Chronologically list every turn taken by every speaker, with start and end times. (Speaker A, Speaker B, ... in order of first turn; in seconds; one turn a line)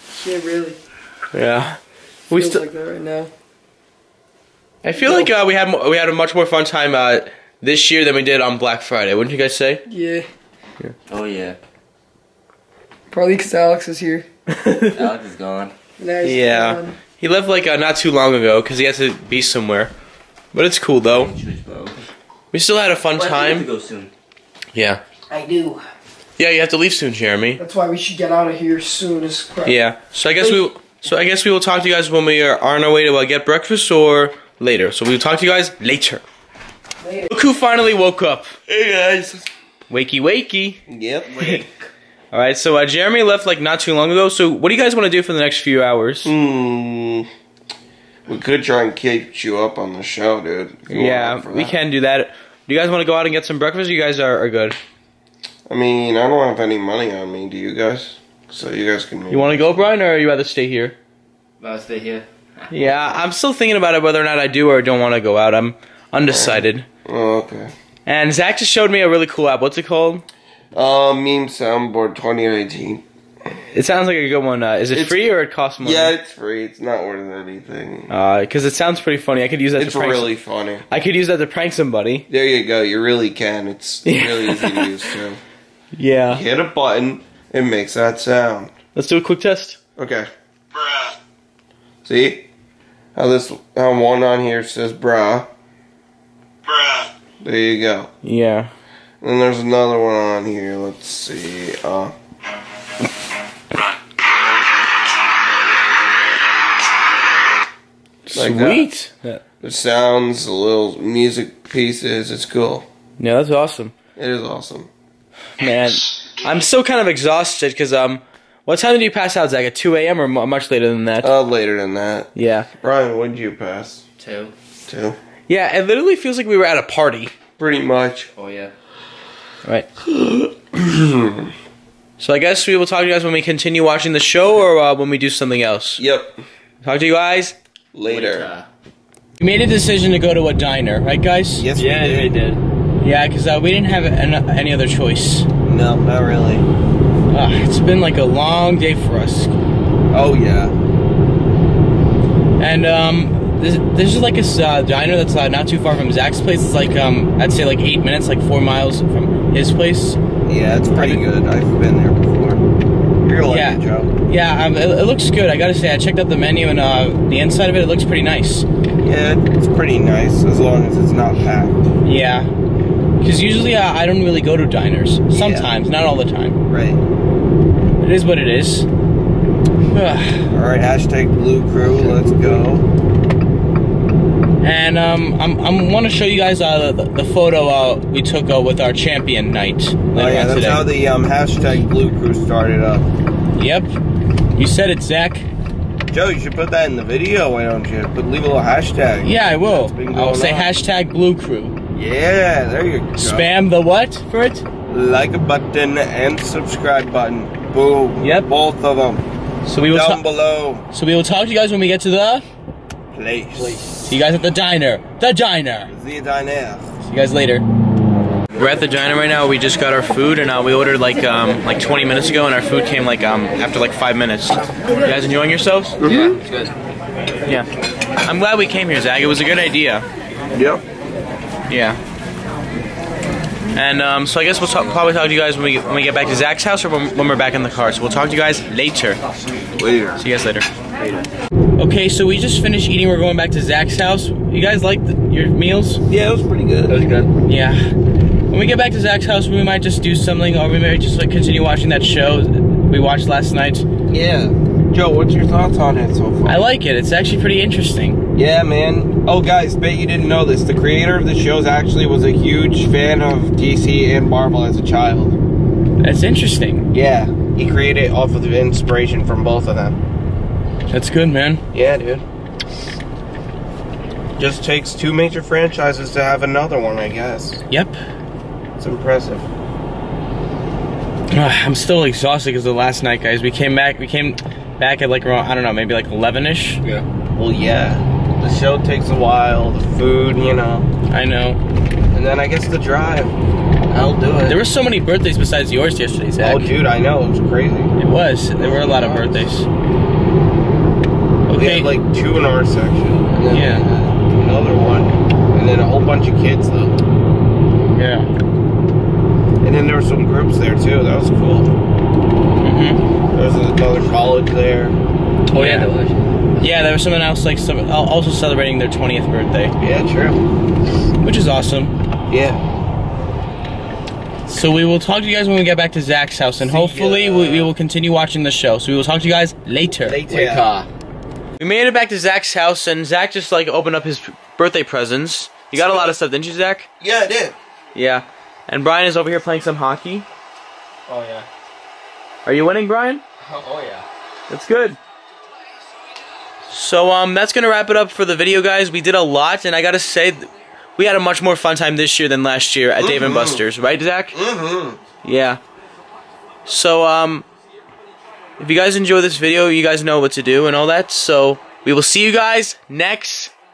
Speaker A: 0.1-0.8
Speaker B: 1.3-1.8
Speaker B: 2.3-2.6
Speaker A: 2.3-3.3
Speaker B: 4.8-9.8
Speaker A: 5.0-5.3
Speaker A: 9.9-10.2
Speaker C: 11.1-11.6
Speaker A: 13.1-14.3
Speaker B: 14.5-14.9
Speaker C: 14.9-15.7
Speaker A: 16.0-16.9
Speaker B: 16.2-19.9
Speaker B: 20.5-21.3
Speaker C: 21.1-22.0
Speaker B: 22.5-23.7
Speaker C: 23.1-24.1
Speaker B: 24.7-25.0
Speaker A: 25.3-25.8
Speaker B: 26.4-27.6
Speaker A: 27.6-29.8
Speaker B: 29.6-36.2
Speaker A: 37.0-37.3
Speaker B: 37.3-38.5
Speaker D: 38.7-39.5
Speaker B: 39.9-40.8
Speaker D: 40.9-41.3
Speaker C: 41.3-41.7
Speaker B: 42.3-46.3
Speaker D: 46.2-47.3
Speaker D: 48.3-51.7
Speaker B: 50.9-54.8
Speaker D: 55.7-59.7
Speaker B: 59.3-60.9
Speaker C: 61.6-63.0
Speaker B: 62.7-66.9
Speaker D: 66.3-67.7
Speaker B: 68.0-70.2
Speaker D: 70.7-73.0
Speaker B: 73.7-76.1
Speaker D: 74.9-75.3
Speaker D: 75.8-78.1
Speaker B: 78.1-80.3
Speaker D: 79.8-80.9
Speaker B: 80.9-82.3
Speaker D: 82.3-85.4
Speaker B: 84.0-84.9
Speaker B: 85.9-86.4
Speaker D: 86.3-88.8
Speaker B: 88.9-89.8
Speaker D: 90.0-90.3
Speaker D: 92.0-92.5
Speaker D: 93.1-95.5
Speaker D: 97.4-98.1
Speaker B: 98.2-98.7
Speaker D: 99.2-102.1
Speaker B: 108.3-109.4
Speaker D: 108.3-108.8
Speaker D: 109.6-112.8
Speaker B: 113.2-113.9
Speaker D: 114.2-114.9
Speaker B: 115.6-121.3
Speaker D: 121.2-124.0
Speaker B: 122.3-122.7
Speaker C: 124.2-124.5
Speaker D: 124.9-125.2
Speaker B: 125.5-127.3
Speaker D: 127.6-128.3
Speaker C: 128.3-128.7
Speaker D: 130.1-131.5
Speaker B: 132.2-136.0
Speaker D: 136.0-136.4
Speaker B: 136.8-137.5
Speaker D: 137.9-138.5
Speaker C: 138.1-138.7
Speaker B: 139.4-141.7
Speaker D: 141.6-142.4
Speaker C: 141.7-142.6
Speaker B: 143.0-145.5
Speaker D: 145.6-146.7
Speaker B: 147.3-149.5
Speaker D: 150.1-150.7
Speaker B: 152.6-160.2
Speaker D: 160.4-162.7
Speaker B: 160.9-161.2
Speaker D: 163.2-164.1
Speaker B: 163.5-168.7
Speaker D: 169.0-171.8
Speaker B: 172.0-172.5
Speaker B: 173.2-176.6
Speaker D: 175.3-175.7
Speaker D: 176.7-177.0
Speaker B: 178.0-178.9
Speaker B: 179.9-180.4
Speaker D: 180.5-182.8
Speaker C: 182.1-182.4
Speaker B: 184.6-190.9
Speaker D: 190.1-193.1
Speaker B: 193.6-193.9
Speaker B: 194.5-195.4
Speaker D: 196.1-200.8
Speaker B: 199.2-201.8
Speaker D: 201.9-203.5
Speaker B: 203.2-204.6
Speaker D: 204.9-209.2
Speaker B: 208.2-208.5
Speaker B: 209.6-210.2
Speaker D: 209.9-210.8
Speaker B: 210.9-212.4
Speaker D: 213.1-213.8
Speaker C: 213.6-213.9
Speaker B: 214.0-215.9
Speaker D: 215.9-216.9
Speaker B: 217.0-217.6
Speaker B: 218.6-226.0
Speaker C: 226.0-226.7
Speaker A: 226.1-226.3
Speaker B: 228.2-230.0
Speaker D: 230.5-230.8
Speaker B: 231.7-232.0
Speaker B: 233.7-239.2
Speaker D: 239.8-240.2
Speaker B: 240.2-240.7
Speaker C: 241.0-241.2
Speaker B: 241.8-246.0
Speaker D: 246.1-247.0
Speaker C: 246.9-247.3
Speaker B: 247.4-247.9
Speaker B: 248.5-253.8
Speaker D: 254.1-256.7
Speaker B: 256.4-258.2
Speaker D: 258.3-265.4
Speaker B: 266.0-266.9
Speaker D: 266.9-270.0
Speaker B: 270.9-271.6
Speaker D: 271.7-272.2
Speaker D: 274.4-277.6
Speaker B: 277.7-278.0
Speaker D: 278.8-279.5
Speaker B: 281.3-286.8
Speaker D: 287.4-290.9
Speaker B: 291.1-291.6
Speaker D: 292.1-293.3
Speaker D: 293.9-294.6
Speaker B: 294.4-296.7
Speaker D: 296.4-297.9
Speaker B: 298.0-299.6
Speaker D: 298.6-299.4
Speaker B: 301.5-301.9
Speaker D: 301.5-307.0
Speaker B: 303.5-303.8
Speaker B: 307.9-308.3
Speaker D: 309.6-311.7
Speaker B: 312.6-313.0
Speaker D: 313.3-315.0
Speaker C: 315.5-316.3
Speaker B: 315.5-315.9
Speaker B: 316.6-319.7
Speaker D: 319.8-320.4
Speaker B: 321.2-321.9
Speaker D: 322.3-322.6
Speaker B: 324.5-330.2
Speaker D: 326.8-327.2
Speaker C: 327.2-327.6
Speaker D: 330.1-330.7
Speaker C: 330.2-330.9
Speaker B: 331.6-336.9
Speaker D: 335.7-336.1
Speaker D: 337.0-337.5
Speaker B: 337.9-340.2
Speaker B: 342.4-343.2
Speaker C: 343.5-344.0
Speaker B: 344.5-345.0
Speaker B: 346.7-354.4
Speaker D: 353.0-353.6
Speaker D: 354.3-355.0
Speaker B: 355.2-355.6
Speaker B: 356.6-357.4
Speaker B: 358.6-363.5